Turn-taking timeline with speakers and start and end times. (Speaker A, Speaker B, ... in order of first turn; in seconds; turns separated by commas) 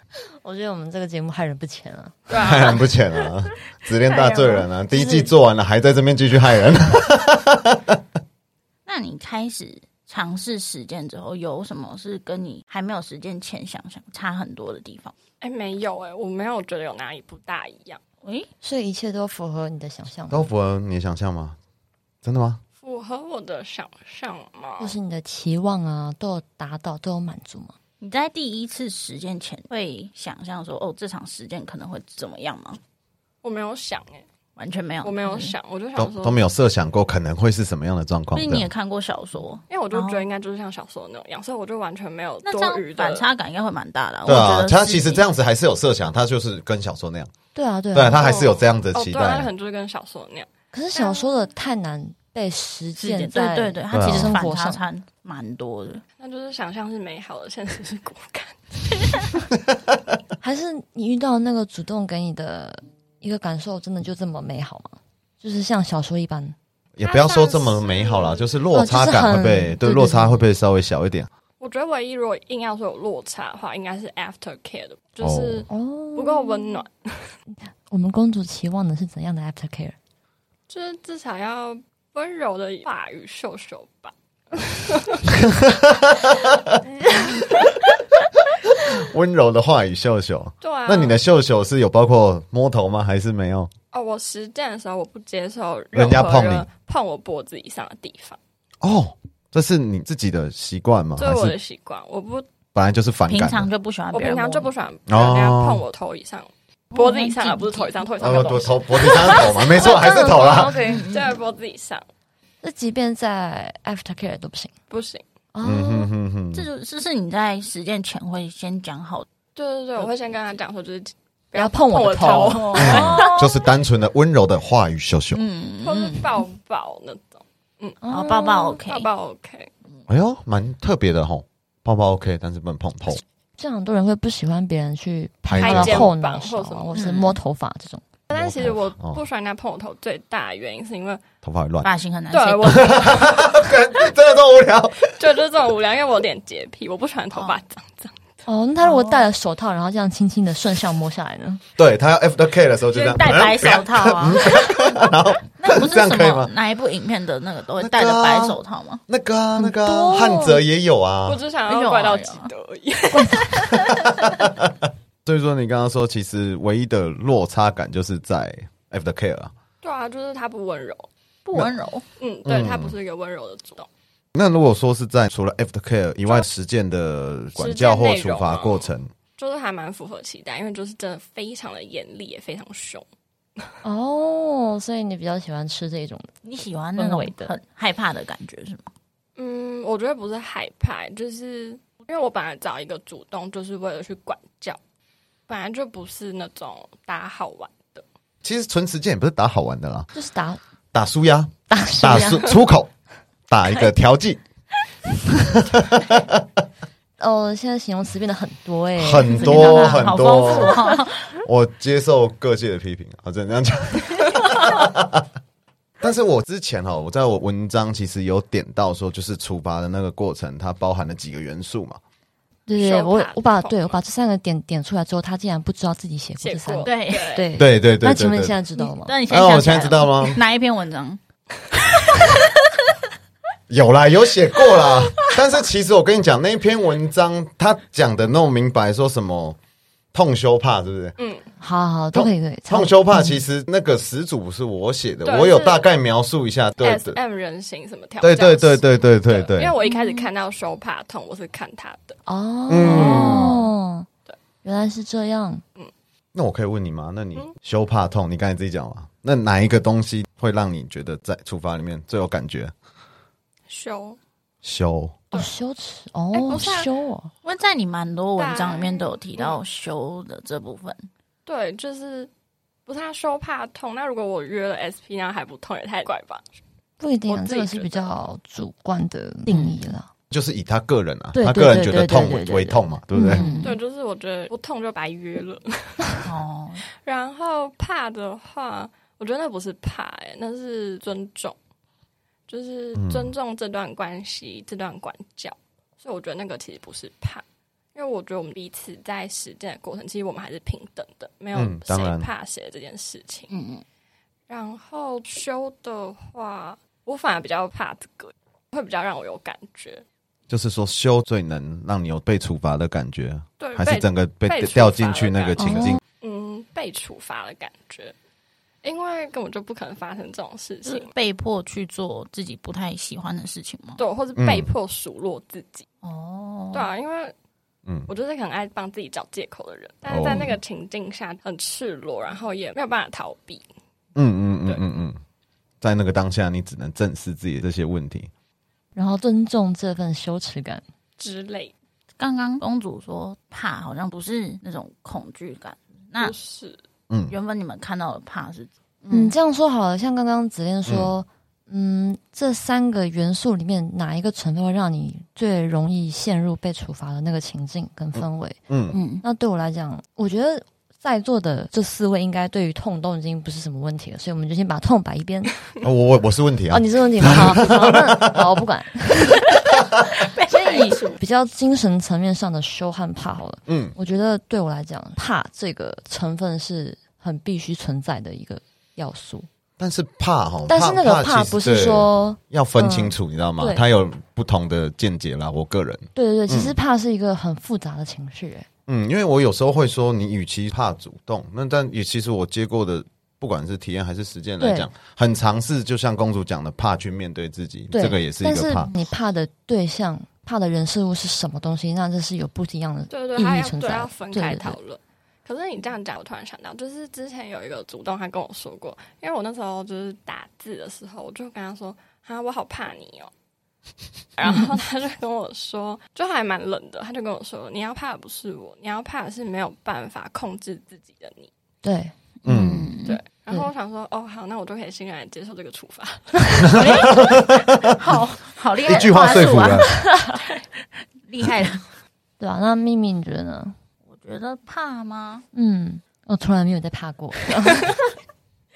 Speaker A: 0.4-2.2, Speaker B: 2.3-3.0, Speaker C: 2.3-8.0, Speaker B: 4.2-4.5, Speaker A: 4.9-5.2, Speaker D: 8.8-15.1, Speaker B: 15.4-18.0, Speaker D: 18.2-18.5, Speaker A: 18.6-20.4, Speaker C: 20.3-21.6, Speaker C: 22.2-22.6, Speaker B: 22.8-24.9, Speaker A: 24.8-27.7, Speaker D: 28.0-32.8, Speaker B: 33.4-34.2, Speaker D: 34.6-35.5, Speaker B: 35.0-36.4, Speaker C: 36.0-38.7, Speaker D: 38.3-40.2, Speaker B: 39.7-43.2, Speaker D: 42.4-45.2, Speaker C: 44.2-47.3, Speaker A: 47.5-48.2, Speaker C: 47.9-49.5, Speaker B: 48.1-51.3, Speaker A: 50.7-54.8, Speaker D: 53.0-56.0, Speaker C: 53.9-54.4, Speaker B: 56.2-59.4, Speaker A: 60.4-66.5, Speaker C: 67.0-71.3, Speaker B: 67.0-68.5, Speaker A: 68.7-70.4, Speaker B: 71.6-77.3, Speaker C: 75.2-75.7, Speaker A: 75.7-76.8, Speaker A: 77.9-80.0, Speaker B: 80.7-85.2, Speaker C: 85.4-86.8, Speaker C: 88.6-93.7, Speaker B: 90.6-91.2, Speaker B: 93.9-98.4, Speaker C: 95.9-96.7, Speaker C: 98.8-101.5, Speaker B: 101.2-102.5, Speaker C: 102.7-103.7, Speaker D: 103.3-104.7, Speaker B: 104.1-112.0, Speaker C: 105.1-105.8, Speaker A: 106.9-107.9, Speaker D: 108.2-108.6, Speaker C: 108.2-110.8, Speaker A: 109.4-111.1, Speaker D: 110.8-111.4, Speaker A: 112.6-114.7, Speaker B: 114.9-115.2, Speaker A: 115.5-116.1, Speaker C: 115.6-116.7, Speaker D: 116.5-119.3, Speaker B: 119.5-123.4, Speaker A: 121.5-123.5, Speaker D: 122.3-123.3, Speaker C: 122.8-125.4, Speaker D: 125.3-126.4, Speaker B: 125.8-128.0, Speaker A: 128.0-128.8, Speaker D: 128.1-129.1, Speaker B: 128.8-129.7, Speaker C: 130.1-133.2, Speaker A: 133.6-138.0, Speaker C: 135.4-136.1, Speaker B: 135.5-137.1, Speaker D: 136.9-137.4, Speaker B: 138.3-141.2, Speaker C: 138.3-139.2, Speaker C: 141.4-141.9, Speaker D: 141.8-142.9, Speaker B: 142.3-143.6, Speaker C: 142.6-145.1, Speaker B: 145.1-148.2, Speaker A: 148.4-151.6, Speaker D: 148.8-149.3, Speaker C: 151.8-156.5, Speaker D: 152.9-159.0, Speaker C: 157.8-161.4, Speaker A: 159.6-160.6, Speaker B: 161.2-164.1, Speaker D: 161.7-162.5, Speaker A: 163.1-163.6, Speaker D: 163.7-164.3, Speaker C: 164.1-169.5, Speaker B: 169.8-171.1, Speaker D: 171.4-172.0, Speaker B: 172.2-173.9, Speaker C: 172.4-172.9, Speaker C: 174.3-179.1, Speaker B: 177.6-183.0, Speaker A: 183.8-186.4, Speaker D: 186.4-188.9, Speaker A: 186.9-187.5, Speaker B: 189.4-194.8, Speaker B: 195.5-198.0, Speaker C: 198.4-200.1, Speaker A: 200.1-200.6, Speaker C: 200.9-202.9, Speaker A: 201.7-202.5, Speaker C: 203.5-204.4, Speaker C: 205.4-206.4, Speaker A: 207.2-210.9, Speaker C: 209.0-210.8, Speaker D: 209.3-211.3, Speaker C: 211.4-215.2, Speaker C: 216.0-222.0, Speaker A: 222.7-229.2, Speaker B: 222.8-224.0, Speaker B: 226.4-227.5, Speaker D: 226.8-227.5, Speaker C: 227.6-228.6, Speaker D: 228.8-231.2, Speaker C: 229.3-230.4, Speaker D: 231.7-232.4, Speaker C: 233.7-239.6, Speaker D: 234.7-235.3, Speaker C: 240.1-241.2, Speaker B: 241.2-241.5, Speaker A: 241.6-243.4, Speaker C: 242.1-247.2, Speaker B: 245.2-245.8, Speaker B: 246.8-252.2, Speaker C: 248.2-249.8, Speaker A: 249.8-250.3, Speaker A: 252.3-254.1, Speaker C: 252.7-253.6, Speaker D: 252.9-253.6, Speaker B: 252.9-253.3, Speaker A: 254.6-255.6, Speaker C: 256.3-262.7, Speaker B: 263.7-264.2, Speaker C: 264.6-265.2, Speaker A: 265.3-267.3, Speaker B: 266.4-266.9, Speaker D: 266.4-266.9, Speaker D: 267.4-271.1, Speaker B: 268.4-269.6, Speaker B: 271.4-272.3, Speaker B: 272.9-276.4, Speaker A: 277.0-280.1, Speaker B: 277.3-278.1, Speaker D: 279.5-279.8, Speaker C: 280.3-283.4, Speaker A: 281.3-283.7, Speaker D: 283.1-283.7, Speaker B: 283.6-286.2, Speaker D: 286.2-286.8, Speaker B: 287.0-291.6, Speaker B: 292.5-297.4, Speaker C: 292.9-293.3, Speaker B: 297.9-303.5, Speaker C: 301.5-302.3, Speaker D: 303.5-303.8, Speaker B: 304.5-310.0, Speaker C: 310.5-316.0, Speaker B: 313.6-318.1, Speaker A: 315.6-316.0, Speaker B: 318.8-321.1, Speaker D: 320.8-324.0, Speaker B: 324.0-325.9, Speaker C: 324.4-324.7, Speaker D: 326.0-326.9, Speaker B: 326.7-327.3, Speaker B: 328.1-333.6, Speaker C: 330.1-330.6, Speaker C: 334.1-335.2, Speaker C: 335.8-338.3, Speaker A: 338.9-340.8, Speaker B: 341.2-341.7, Speaker D: 342.2-346.3, Speaker B: 346.2-346.8, Speaker C: 347.1-347.4, Speaker D: 347.3-349.4, Speaker A: 349.1-358.6, Speaker C: 358.1-359.0, Speaker D: 358.9-359.2, Speaker A: 359.2-365.5, Speaker C: 365.8-368.5, Speaker A: 366.7-369.5, Speaker D: 370.2-371.2, Speaker A: 370.4-379.5, Speaker C: 373.7-373.9, Speaker C: 379.8-386.7, Speaker A: 380.7-383.8, Speaker A: 386.1-388.7, Speaker C: 388.9-398.9, Speaker A: 394.6-394.9, Speaker A: 397.9-404.8, Speaker B: 403.1-413.3, Speaker B: 414.4-421.5, Speaker A: 421.8-422.1, Speaker D: 422.4-423.2, Speaker C: 422.4-422.9, Speaker B: 423.1-427.1, Speaker C: 426.6-427.9, Speaker D: 426.7-430.0, Speaker C: 428.8-429.9, Speaker A: 429.9-430.3, Speaker D: 431.2-431.8, Speaker A: 432.4-433.8, Speaker D: 434.1-435.4, Speaker A: 435.5-438.0